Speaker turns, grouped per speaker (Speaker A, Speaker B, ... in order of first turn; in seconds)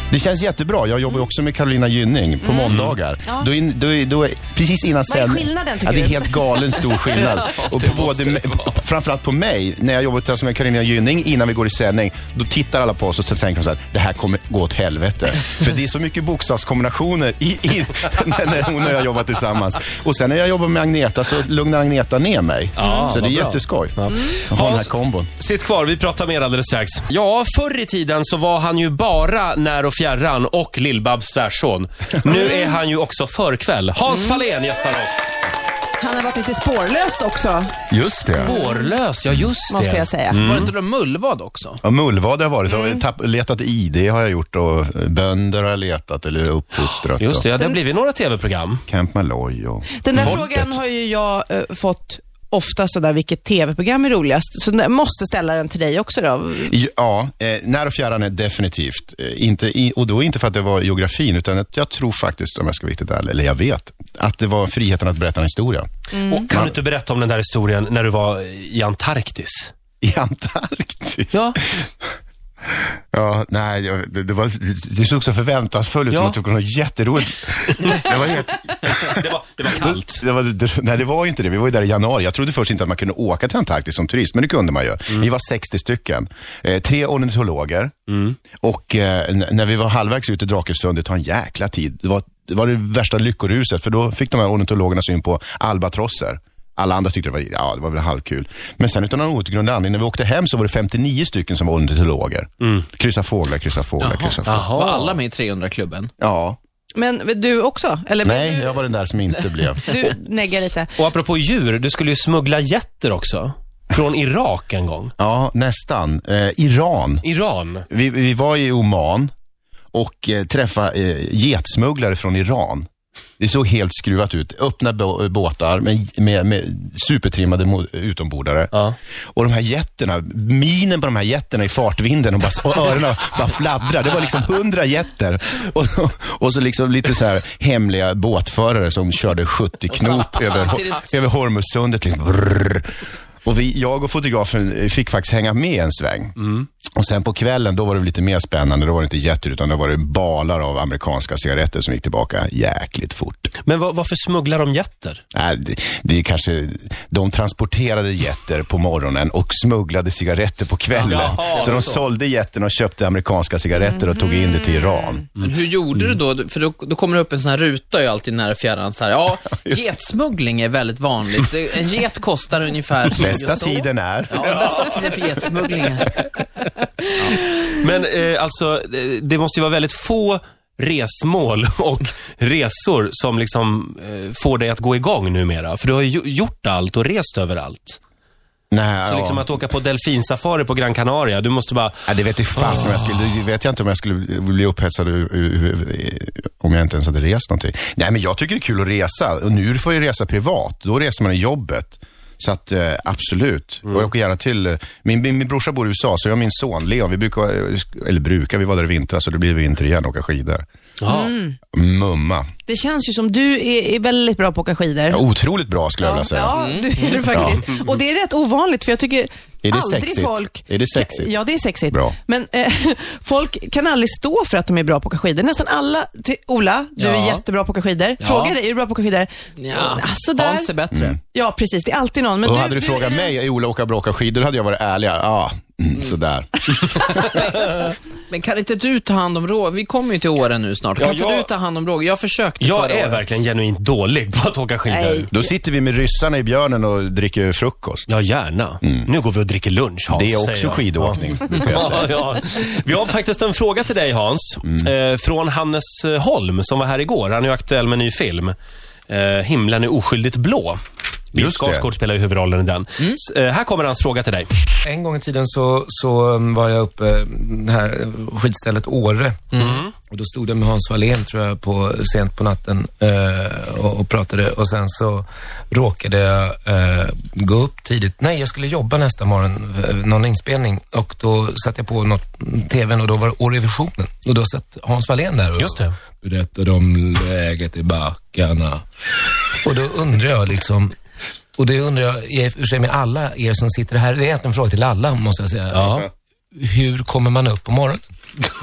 Speaker A: 0.1-25.3, 37.9-38.5, 41.8-47.5, 48.9-50.8, 56.6-65.9, 66.5-66.8, 70.0-72.0, 73.1-87.9, 88.6-104.7, 106.2-106.6, 108.2-109.8, 115.2-117.2, 117.9-119.3, 119.9-122.9, 123.4-128.7, 129.3-146.3, 146.9-153.5, 155.3-165.2, 169.7-169.9, 173.1-174.8, 188.7-189.5, 192.1-210.6, 211.7-212.5, 215.1-216.5, 217.3-217.6, 219.6-221.4, 221.9-222.2, 230.9-231.2, 232.4-237.4, 245.3-248.1, 248.8-249.1, 250.1-252.1, 254.6-254.9, 261.3-261.9
Speaker B: 2.4-3.5, 5.1-7.0, 22.8-23.2, 32.3-32.8, 34.1-34.4, 36.0-37.7, 38.4-38.8, 39.7-40.6, 42.7-43.0, 50.0-56.7, 66.1-66.5, 106.9-108.8, 109.8-110.9, 211.1-211.6, 212.7-215.2, 216.0-230.7, 231.3-233.3, 244.9-245.4
Speaker C: 2.7-3.0, 7.2-8.8, 22.8-35.2, 38.4-40.7, 47.1-48.8, 66.2-69.7, 77.8-78.3, 78.8-80.2, 88.1-88.4, 102.6-102.8, 104.5-105.2, 111.0-115.1, 117.2-117.8, 146.4-146.7, 153.6-155.2, 161.0-162.0, 174.4-175.9, 177.3-188.0, 189.0-193.1, 211.0-211.3, 240.9-241.5, 242.6-245.3, 248.1-258.5, 259.1-260.8, 261.3-264.6, 269.6-269.9, 285.6-285.9, 295.7-296.1
Speaker D: 40.4-41.8, 104.0-106.1, 139.9-141.1, 160.9-161.9, 165.4-176.2, 216.6-217.4, 227.0-227.4, 228.2-228.6, 229.6-231.2, 238.3-243.4
Speaker E: 264.8-288.8, 289.6-290.9, 291.6-298.0